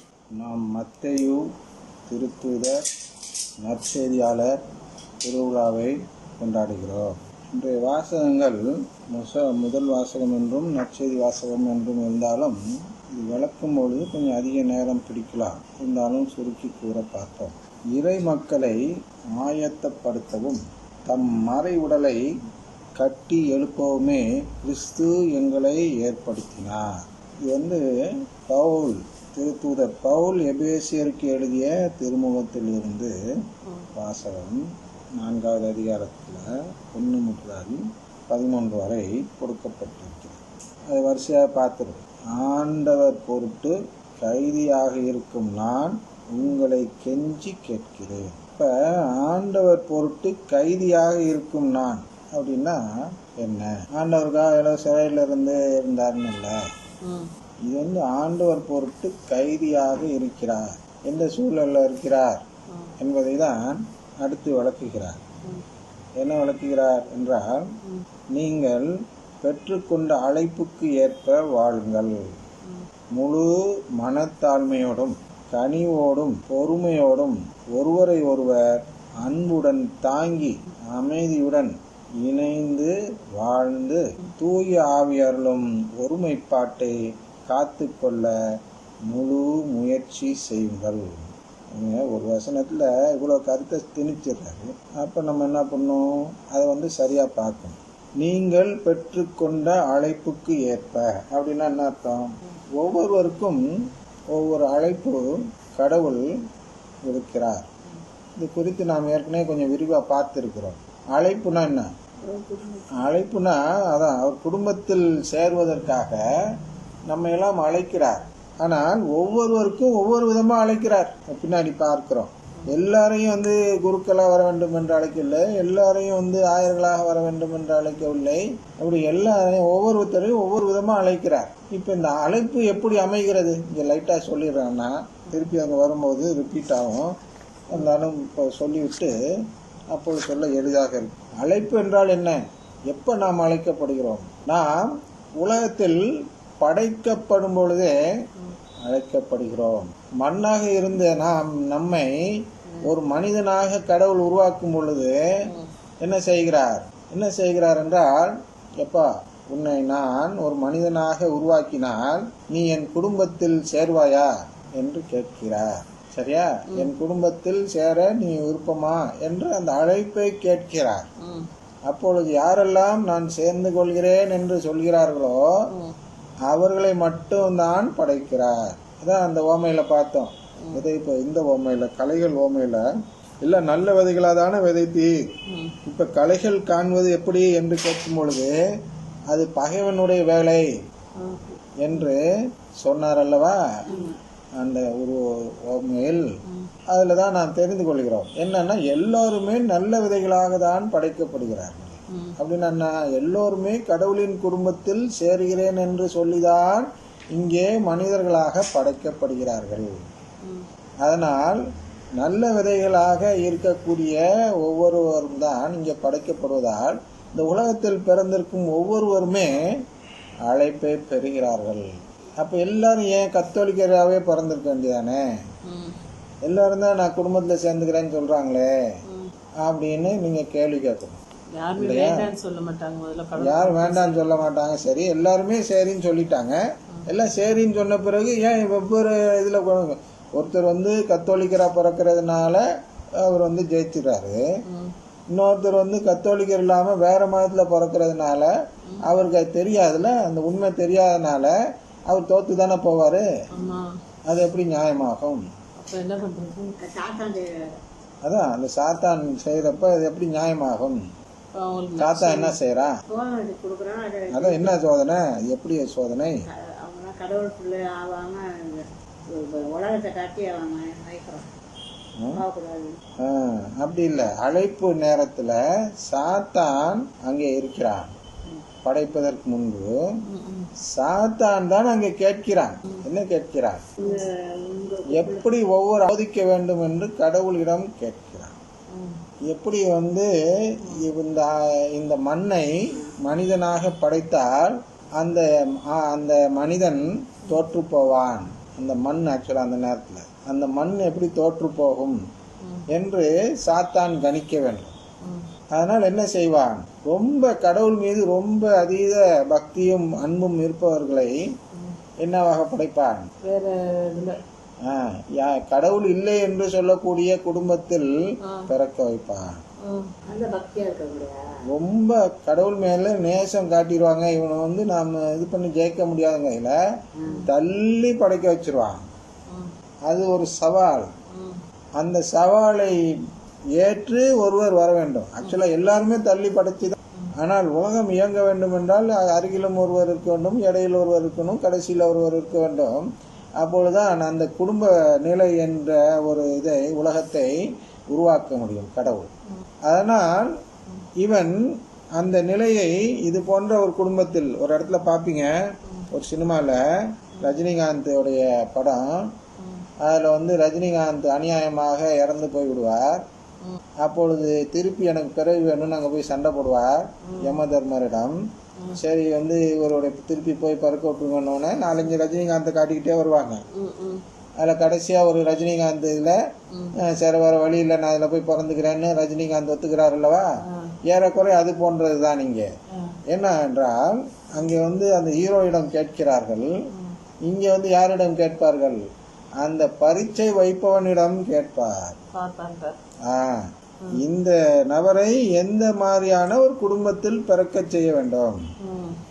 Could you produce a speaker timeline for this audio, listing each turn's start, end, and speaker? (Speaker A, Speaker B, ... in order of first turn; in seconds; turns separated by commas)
Speaker A: 0.4-1.4, Speaker A: 2.1-2.8, Speaker A: 3.6-4.5, Speaker A: 5.2-12.6, Speaker A: 13.1-18.8, Speaker A: 19.4-22.2, Speaker A: 23.0-26.9, Speaker A: 27.5-27.8, Speaker A: 28.4-33.1, Speaker B: 33.6-33.9, Speaker A: 33.9-34.6, Speaker A: 35.2-52.8, Speaker A: 53.4-56.5, Speaker B: 57.0-57.3, Speaker A: 57.7-62.4, Speaker A: 63.0-65.2, Speaker A: 66.2-67.6, Speaker A: 68.3-68.9, Speaker A: 69.4-72.1, Speaker A: 73.1-86.9, Speaker A: 87.5-88.3, Speaker A: 89.1-91.2, Speaker A: 91.7-103.6, Speaker A: 104.3-105.2, Speaker A: 105.7-106.2, Speaker A: 107.0-107.7, Speaker A: 108.4-111.9, Speaker C: 112.3-112.9, Speaker A: 112.9-116.2, Speaker A: 117.1-137.1, Speaker A: 137.7-139.2, Speaker A: 139.9-142.4, Speaker A: 142.9-146.0, Speaker A: 146.6-147.9, Speaker A: 148.9-152.1, Speaker A: 152.8-155.2, Speaker B: 155.4-155.7, Speaker A: 156.0-171.0, Speaker B: 171.2-171.5, Speaker A: 171.9-175.4, Speaker A: 176.5-182.8, Speaker A: 183.4-185.2, Speaker B: 185.5-185.8, Speaker A: 185.8-188.5, Speaker A: 189.3-190.7, Speaker B: 191.2-191.6, Speaker A: 191.8-192.2, Speaker A: 192.8-193.6, Speaker C: 193.9-194.2, Speaker A: 194.6-196.2, Speaker A: 196.9-209.9, Speaker B: 202.1-202.4, Speaker B: 210.4-210.7, Speaker A: 211.0-211.6, Speaker A: 212.2-219.7, Speaker A: 220.5-221.8, Speaker A: 222.4-225.2, Speaker B: 225.7-226.0, Speaker A: 226.4-228.7, Speaker B: 229.1-229.3, Speaker A: 229.6-231.2, Speaker B: 231.5-234.4, Speaker A: 231.8-232.3, Speaker A: 233.4-242.6, Speaker A: 243.2-244.4, Speaker B: 244.7-244.9, Speaker A: 245.3-248.5, Speaker A: 249.0-251.5, Speaker A: 252.1-253.2, Speaker B: 253.5-253.9, Speaker A: 254.3-255.4, Speaker B: 255.8-256.8, Speaker C: 256.8-257.7, Speaker A: 258.2-261.0, Speaker B: 261.5-262.5, Speaker A: 262.0-262.9, Speaker C: 263.1-264.8, Speaker A: 264.3-266.4, Speaker C: 266.5-271.5, Speaker C: 272.3-272.9, Speaker A: 273.2-278.1, Speaker A: 278.8-279.9, Speaker B: 280.3-280.7, Speaker A: 280.9-283.8, Speaker C: 284.0-285.4, Speaker A: 285.1-288.6, Speaker B: 288.9-289.2, Speaker A: 289.5-302.2, Speaker B: 290.8-291.1, Speaker A: 302.9-304.9, Speaker B: 305.2-305.5, Speaker A: 305.7-311.4, Speaker B: 311.7-312.0, Speaker A: 312.2-313.3, Speaker B: 313.4-314.4, Speaker A: 314.9-318.1, Speaker B: 318.4-318.7, Speaker A: 318.7-319.5, Speaker B: 319.8-320.1, Speaker C: 320.3-321.4, Speaker A: 321.7-326.7, Speaker C: 327.2-327.5, Speaker A: 327.4-329.1, Speaker B: 329.5-329.7, Speaker A: 330.1-331.1, Speaker B: 331.3-331.6, Speaker A: 332.0-333.0, Speaker A: 333.8-343.0, Speaker A: 343.6-347.5, Speaker A: 348.1-349.3, Speaker A: 349.9-350.5, Speaker A: 351.2-351.6, Speaker A: 352.1-355.5, Speaker A: 356.1-356.8, Speaker B: 357.4-357.6, Speaker A: 357.4-359.3, Speaker B: 359.6-359.9, Speaker A: 360.0-363.2, Speaker A: 364.0-368.4, Speaker B: 367.2-367.6, Speaker B: 368.8-369.0, Speaker A: 368.9-373.6, Speaker B: 373.7-374.2, Speaker A: 374.6-376.4, Speaker B: 376.7-377.0, Speaker A: 377.0-380.5, Speaker B: 380.7-380.9, Speaker A: 381.1-382.6, Speaker B: 382.9-383.2, Speaker A: 383.3-386.7, Speaker B: 386.9-387.2, Speaker A: 387.4-389.0, Speaker A: 389.6-392.2, Speaker B: 392.3-393.0, Speaker A: 393.3-398.6, Speaker B: 398.8-399.2